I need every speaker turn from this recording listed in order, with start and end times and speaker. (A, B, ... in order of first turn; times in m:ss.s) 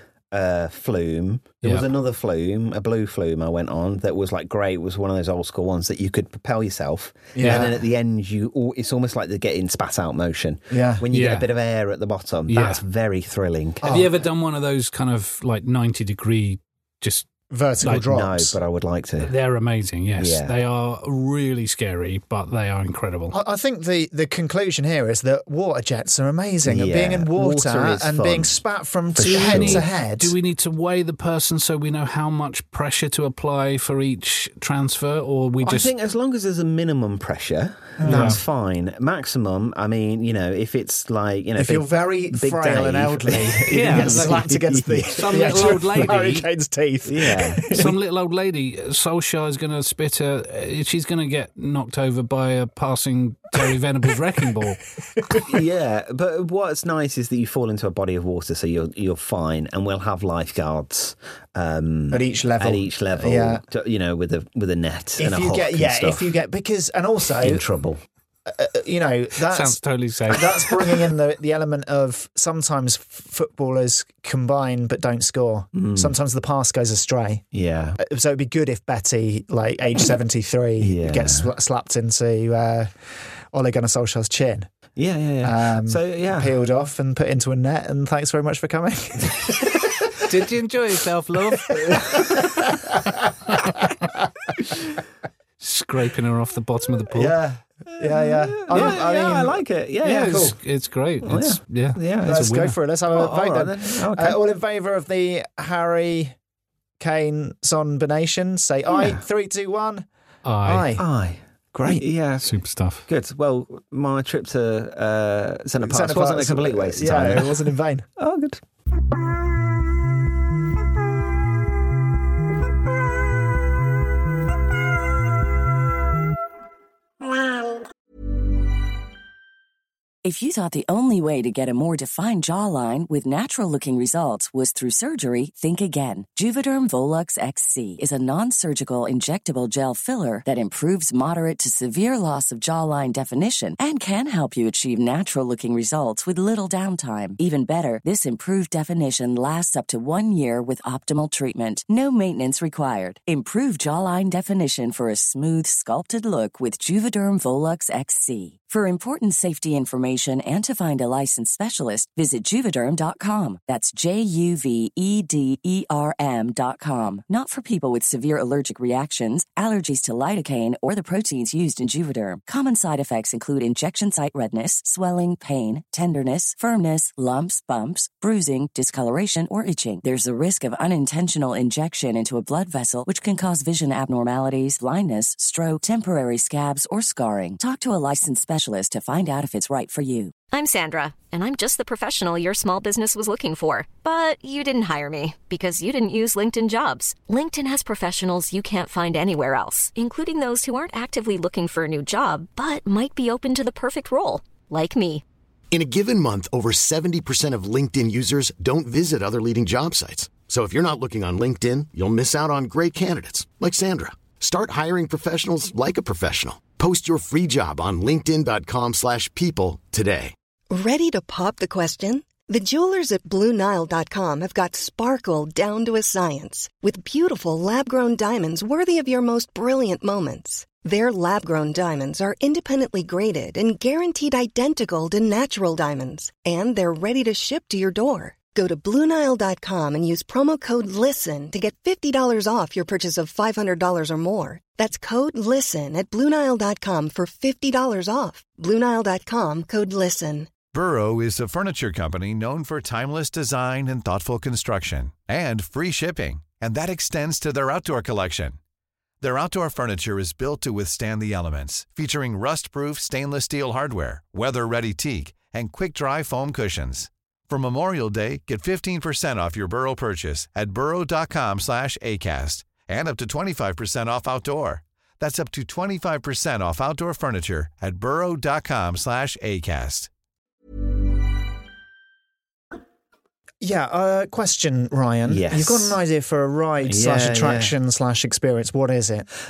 0:00.3-0:13.9 A
0:01.6-0:01.9 B
0:07.3-0:07.8 C
0:07.4-0:07.7 B
0:10.7-0:11.0 C
0:11.1-0:11.5 B
0:12.5-0:12.8 B
0:13.8-0:14.1 C
0:13.8-0:17.3 B
0:17.5-0:18.6 C
0:17.8-0:18.1 B
0:17.9-0:19.3 A
0:19.2-0:23.3 B
0:20.2-0:20.5 A
0:23.3-0:30.4 C
0:26.6-0:28.6 A
0:29.1-0:29.8 A
0:29.3-0:35.9 B
0:35.6-0:46.1 A
0:38.0-0:38.4 C
0:38.0-0:38.4 B
0:41.6-0:47.9 C
0:43.7-0:44.6 B
0:45.1-0:46.4 B
0:47.0-0:47.8 A
0:47.7-0:54.8 B
0:55.2-0:55.4 C
0:55.4-1:06.3 A
1:02.1-1:03.6 C
1:05.2-1:07.6 C
1:07.4-1:08.0 A
1:08.4-1:17.4 C
1:09.5-1:11.0 B
1:15.7-1:16.1 A
1:17.5-1:18.0 A
1:18.0-1:22.9 C
1:20.8-1:21.5 A
1:23.5-1:24.7 C
1:25.0-1:26.5 A
1:25.4-1:30.1 C
1:30.2-1:32.4 B
1:31.9-1:33.5 C
1:35.6-1:37.4 B
1:37.1-1:40.6 C
1:38.0-1:40.5 A
1:40.0-1:42.7 B
1:41.2-1:42.5 A
1:42.2-1:46.4 C
1:43.1-1:44.4 A
1:47.0-1:50.0 C
1:48.9-1:49.2 A
1:50.4-1:50.9 B
1:50.6-1:51.0 C
1:51.0-1:52.5 A
1:52.4-1:53.0 B
1:53.0-1:57.6 A
1:55.8-1:58.0 C
1:58.2-1:58.6 A
2:10.2-3:10.3 D
3:10.5-3:25.2 E
3:25.7-3:40.3 F
3:40.7-4:10.5 G
4:10.7-4:18.6 H
4:19.2-4:40.1 H
4:43.6-4:49.3 C
4:45.3-4:46.0 A
4:46.8-4:47.7 A